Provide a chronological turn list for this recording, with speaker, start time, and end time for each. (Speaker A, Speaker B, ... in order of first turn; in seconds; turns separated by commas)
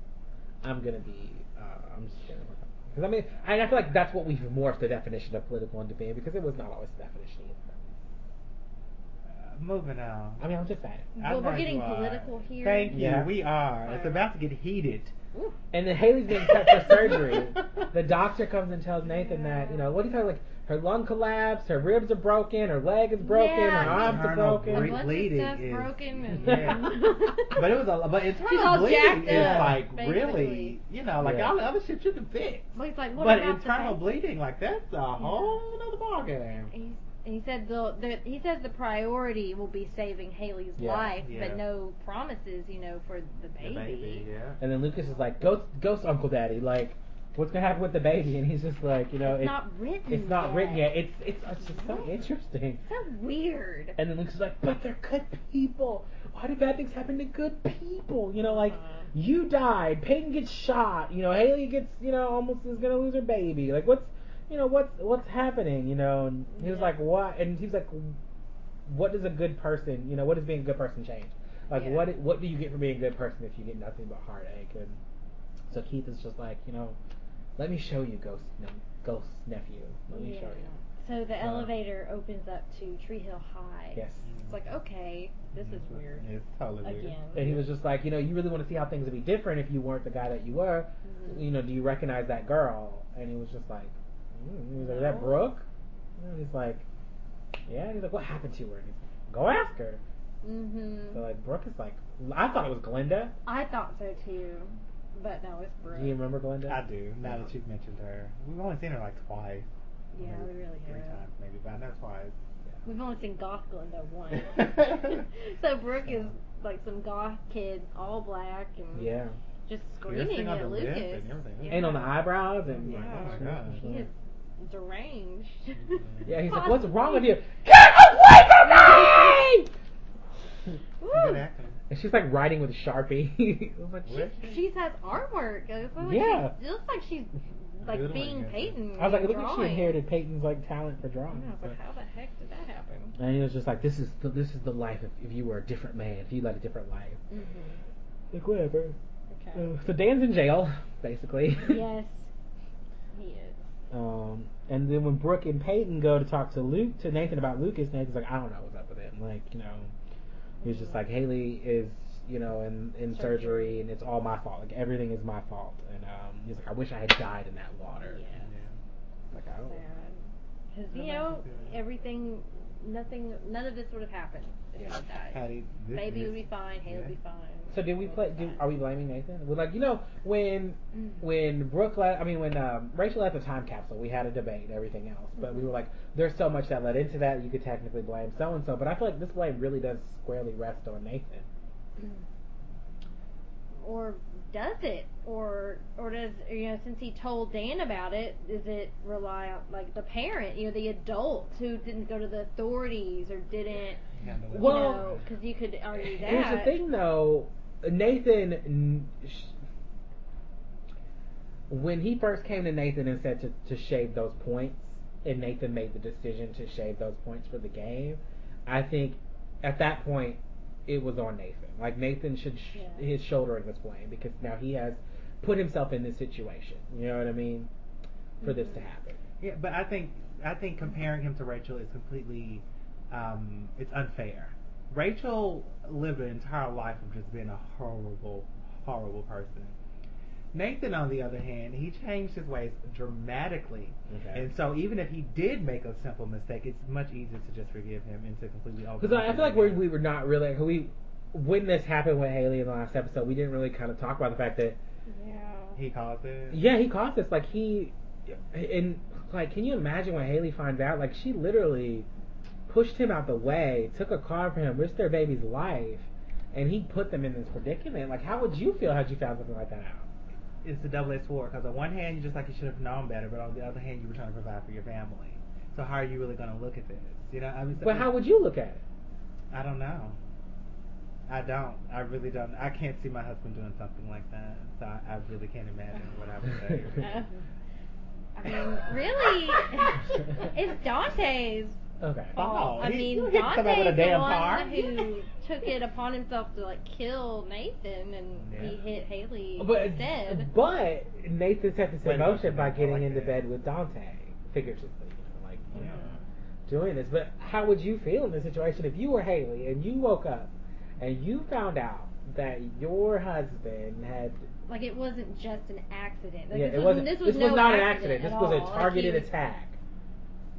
Speaker A: 0.6-7.8, Speaker B: 9.3-10.4, Speaker A: 10.4-11.1, Speaker C: 11.2-13.0, Speaker B: 11.2-15.1, Speaker A: 12.9-13.4, Speaker C: 13.8-14.3, Speaker A: 15.7-25.0, Speaker C: 19.2-19.9, Speaker C: 23.2-27.8, Speaker B: 23.7-36.7, Speaker A: 26.4-26.8, Speaker C: 28.4-30.8, Speaker A: 29.2-29.8, Speaker A: 31.2-31.5, Speaker C: 32.7-34.0, Speaker C: 35.2-35.6, Speaker C: 36.7-44.3, Speaker A: 40.8-41.2, Speaker B: 41.2-41.6, Speaker B: 43.6-44.6, Speaker A: 44.6-52.8, Speaker C: 49.2-51.0, Speaker C: 51.6-52.1, Speaker C: 52.9-54.0, Speaker A: 54.0-68.2, Speaker C: 58.4-59.1, Speaker C: 66.6-67.0, Speaker A: 68.8-75.0, Speaker C: 71.7-72.1, Speaker A: 75.7-77.0, Speaker A: 77.6-80.7, Speaker C: 80.1-86.2, Speaker A: 81.4-81.7, Speaker A: 83.9-84.2, Speaker B: 84.2-84.5, Speaker B: 85.5-87.6, Speaker C: 86.8-87.5, Speaker A: 87.3-95.6, Speaker C: 91.0-91.5, Speaker C: 94.8-95.5, Speaker A: 96.2-96.8, Speaker A: 97.7-100.0, Speaker C: 100.4-101.2, Speaker A: 101.1-103.3, Speaker C: 103.5-106.2, Speaker A: 105.9-107.5, Speaker B: 106.7-109.7, Speaker C: 110.1-111.2, Speaker B: 110.2-112.3, Speaker C: 112.8-119.1, Speaker A: 118.9-119.3, Speaker C: 119.7-122.2, Speaker B: 120.0-121.8, Speaker A: 121.7-124.1, Speaker B: 122.8-123.8, Speaker C: 122.8-127.4, Speaker B: 125.9-126.3, Speaker A: 126.2-129.7, Speaker C: 128.6-129.5, Speaker C: 131.0-131.4, Speaker B: 131.1-131.8, Speaker A: 131.9-134.3, Speaker B: 134.0-134.7, Speaker C: 134.4-140.0, Speaker A: 136.0-136.5, Speaker B: 137.8-138.8, Speaker A: 138.9-141.8, Speaker C: 141.3-143.2, Speaker A: 143.2-147.2, Speaker C: 147.3-147.8, Speaker A: 148.3-148.9, Speaker C: 149.3-149.6, Speaker A: 149.5-151.8, Speaker C: 151.6-152.3, Speaker C: 153.1-153.6, Speaker A: 153.9-159.9, Speaker C: 160.6-161.0, Speaker A: 160.6-168.2, Speaker C: 163.1-163.8, Speaker C: 168.0-168.4, Speaker B: 168.4-168.8, Speaker A: 169.3-169.8, Speaker C: 169.6-178.6, Speaker B: 170.9-171.8, Speaker B: 175.3-177.1, Speaker A: 177.7-191.4, Speaker C: 185.4-185.7, Speaker C: 193.8-204.0, Speaker B: 204.2-205.2, Speaker A: 204.5-205.1, Speaker C: 204.6-206.8, Speaker A: 206.1-209.5, Speaker A: 211.7-227.7, Speaker C: 222.7-223.0, Speaker C: 228.4-228.8, Speaker A: 228.4-229.2, Speaker B: 229.4-239.7, Speaker B: 240.5-249.9, Speaker A: 244.1-244.5, Speaker A: 249.0-254.8, Speaker C: 255.1-255.8, Speaker B: 255.8-256.6, Speaker A: 256.5-262.1, Speaker A: 262.7-270.1, Speaker B: 270.6-278.2, Speaker A: 277.8-278.8, Speaker B: 279.5-280.2, Speaker B: 281.3-287.2, Speaker C: 287.0-287.4, Speaker C: 288.4-291.8, Speaker A: 292.0-292.4, Speaker C: 292.3-300.5, Speaker B: 292.3-295.1, Speaker B: 298.4-298.8, Speaker A: 299.6-305.9, Speaker B: 302.0-303.4, Speaker B: 305.7-306.1, Speaker C: 305.7-306.2, Speaker A: 306.7-314.5, Speaker C: 314.7-319.3, Speaker A: 316.5-319.8